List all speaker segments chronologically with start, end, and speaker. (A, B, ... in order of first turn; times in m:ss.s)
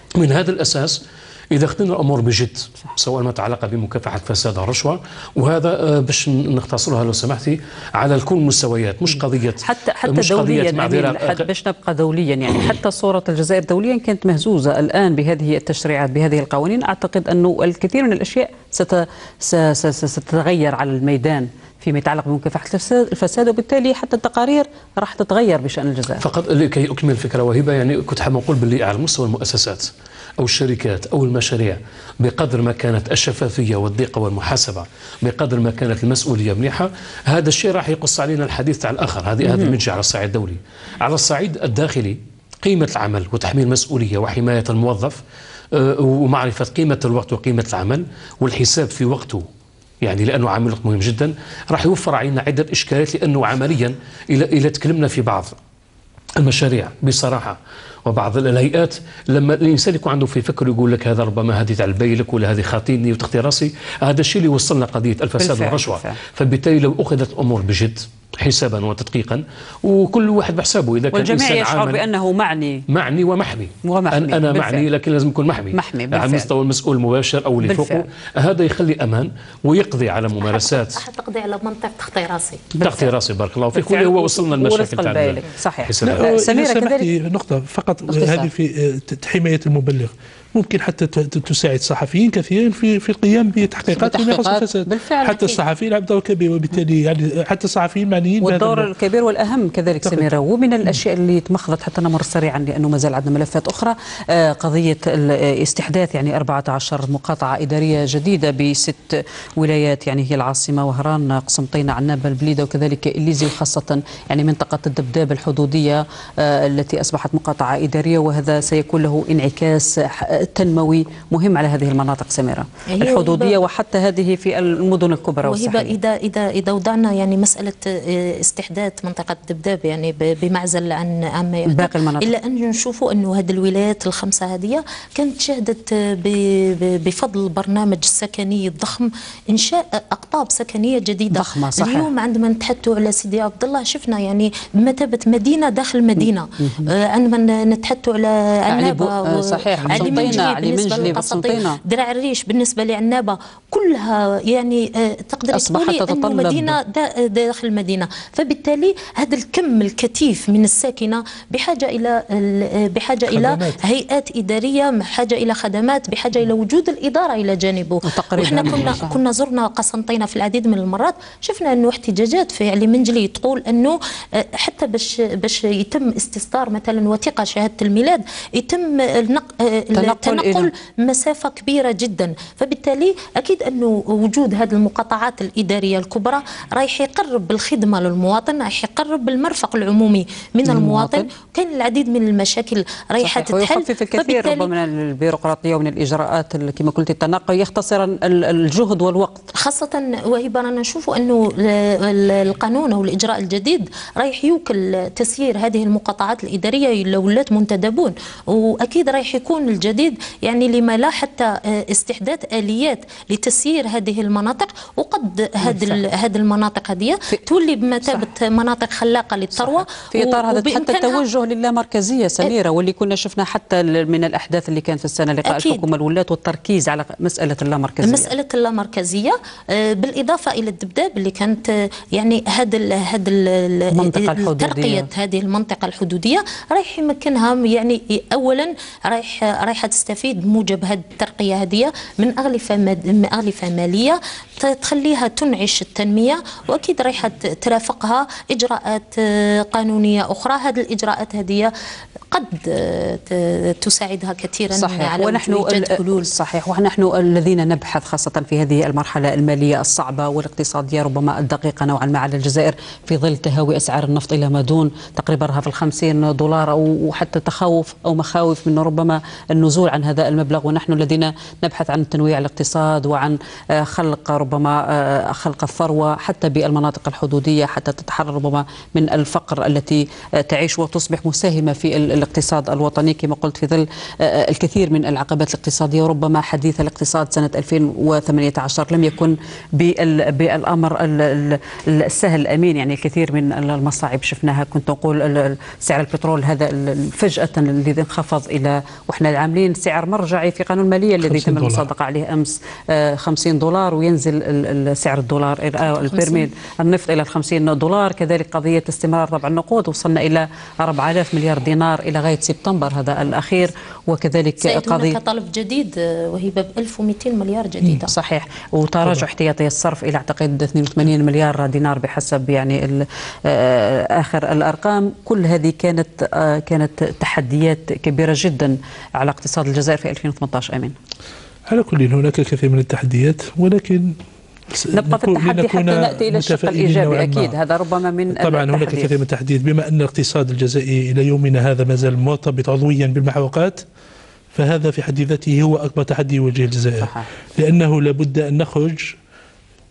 0:00.2-0:11.5 A
0:09.6-0:26.2 B
0:26.2-0:45.2 A
0:39.4-0:39.7 B
0:45.7-0:49.4 A
0:50.0-0:55.6 A
0:56.4-1:12.0 A
1:05.4-1:06.2 B
1:11.1-1:12.8 B
1:12.9-1:21.0 A
1:13.8-1:14.9 B
1:15.7-1:16.5 B
1:17.6-1:18.0 B
1:20.4-1:22.8 C
1:22.8-1:26.3 A
1:22.8-1:23.1 B
1:23.7-1:27.1 B
1:26.0-1:38.9 D
1:28.1-1:28.5 B
1:34.0-1:35.6 B
1:38.4-2:06.0 B
2:02.9-2:03.6 C
2:05.4-3:14.7 C
2:11.7-2:12.3 B
2:21.3-2:22.1 B
2:26.6-2:26.9 B
2:28.7-2:31.8 B
2:29.8-2:30.4 D
2:35.5-2:36.8 B
2:43.3-2:43.8 D
2:48.0-2:49.2 B
3:00.0-3:00.7 B
3:10.6-3:11.3 B
3:13.2-3:19.5 B
3:19.5-3:41.2 C
3:35.6-3:36.0 B
3:39.6-3:48.3 B
3:45.5-3:45.8 C
3:48.0-4:11.7 C
3:53.9-3:55.1 B
4:12.3-4:16.3 C
4:14.7-5:15.2 B
5:01.2-5:01.9 D
5:05.9-5:06.5 C
5:14.6-5:18.1 C
5:18.1-5:30.9 B
5:31.7-5:34.2 D
5:34.7-5:37.6 D
5:34.9-5:39.1 B
5:38.4-5:43.8 D
5:44.5-5:49.2 D
5:47.0-5:47.3 B